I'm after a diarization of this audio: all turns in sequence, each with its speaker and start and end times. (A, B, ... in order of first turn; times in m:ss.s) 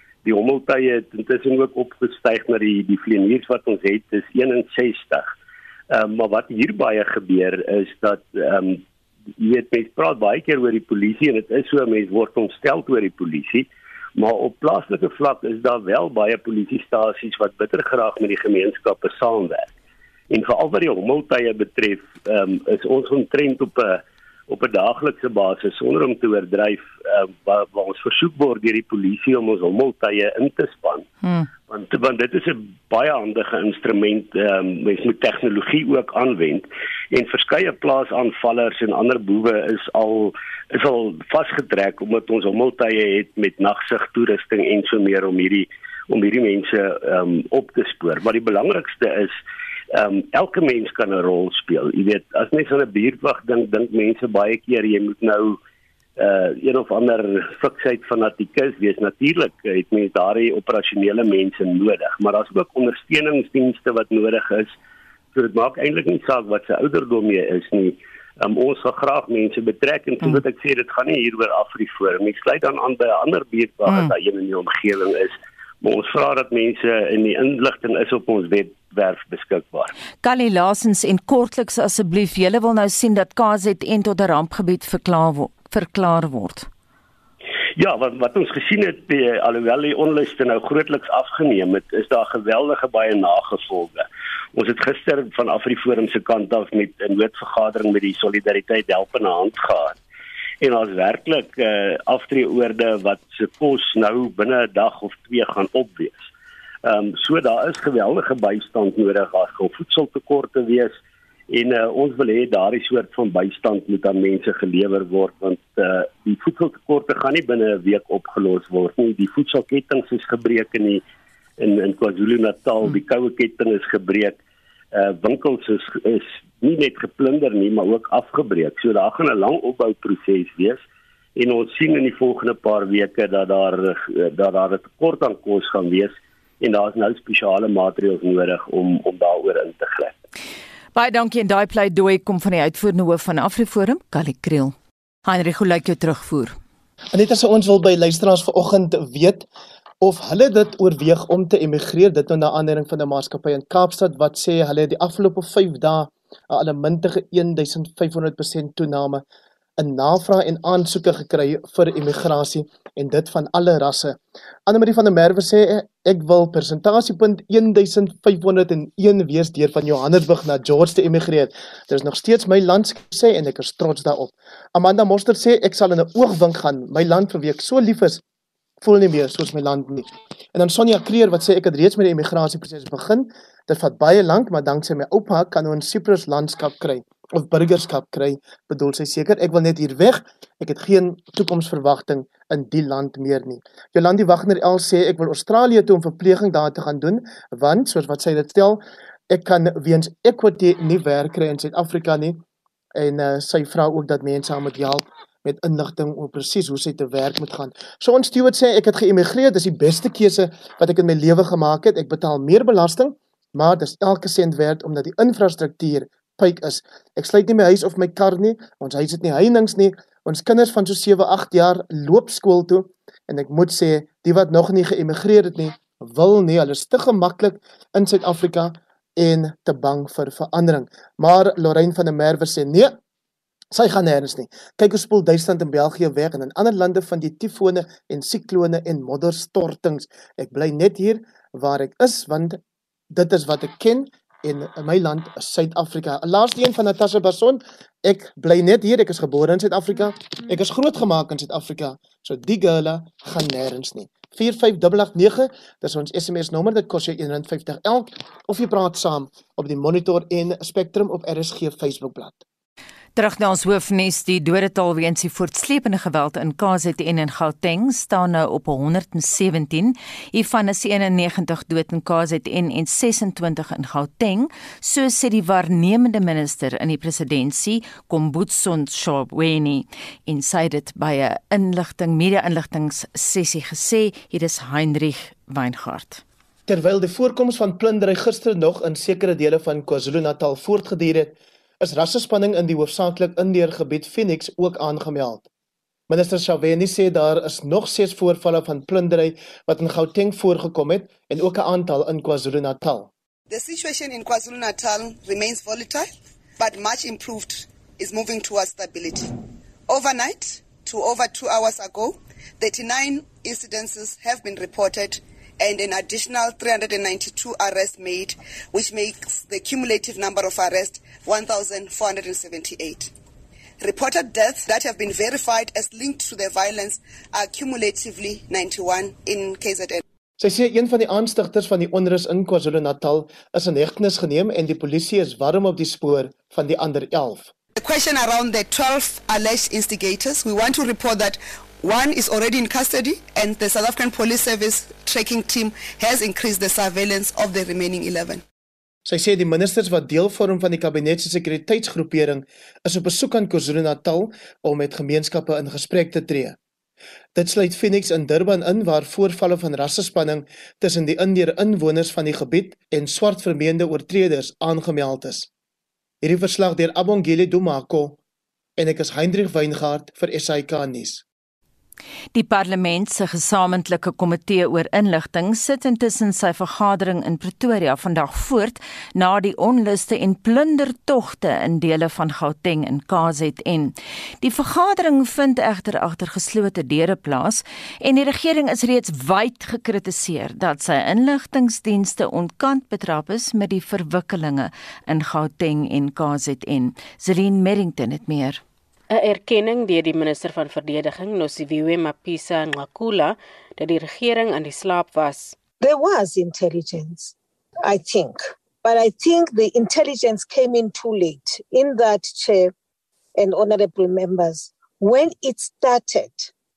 0:00.2-0:05.3 A
0:05.9-0:08.8 A
0:09.4-0:19.7 A
0:20.3-0:31.1 A
0:31.2-0:31.5 B
0:31.7-0:49.4 A
0:49.9-0:55.6 A
0:56.2-1:04.8 A
1:05.3-1:19.9 A
1:20.2-1:26.7 B
1:27.8-1:40.0 A
1:40.6-1:46.3 A
1:46.8-1:51.0 A
1:51.5-2:01.0 A
2:01.6-2:04.4 A
2:04.9-2:10.8 A
2:11.4-2:20.1 A
2:21.0-2:26.6 B
2:27.1-2:29.5 C
2:30.0-2:39.2 C
2:39.8-2:58.2 C
2:58.8-3:22.4 C
3:23.0-3:53.0 C
3:53.7-4:02.6 C
4:03.1-4:22.4 C
4:23.2-4:46.2 B
4:46.7-4:55.5 C
4:56.1-5:03.1 C
5:03.5-5:09.3 D
5:09.9-5:23.1 D
5:23.8-5:30.0 D
5:30.4-5:37.5 C
5:37.8-5:48.4 D
5:49.0-5:56.6 C
5:57.4-6:05.5 C
6:06.2-6:08.2 C
6:08.8-6:11.2 C
6:12.3-6:38.6 B
6:39.1-6:45.6 E
6:45.8-6:52.7 F
6:53.4-6:56.5 F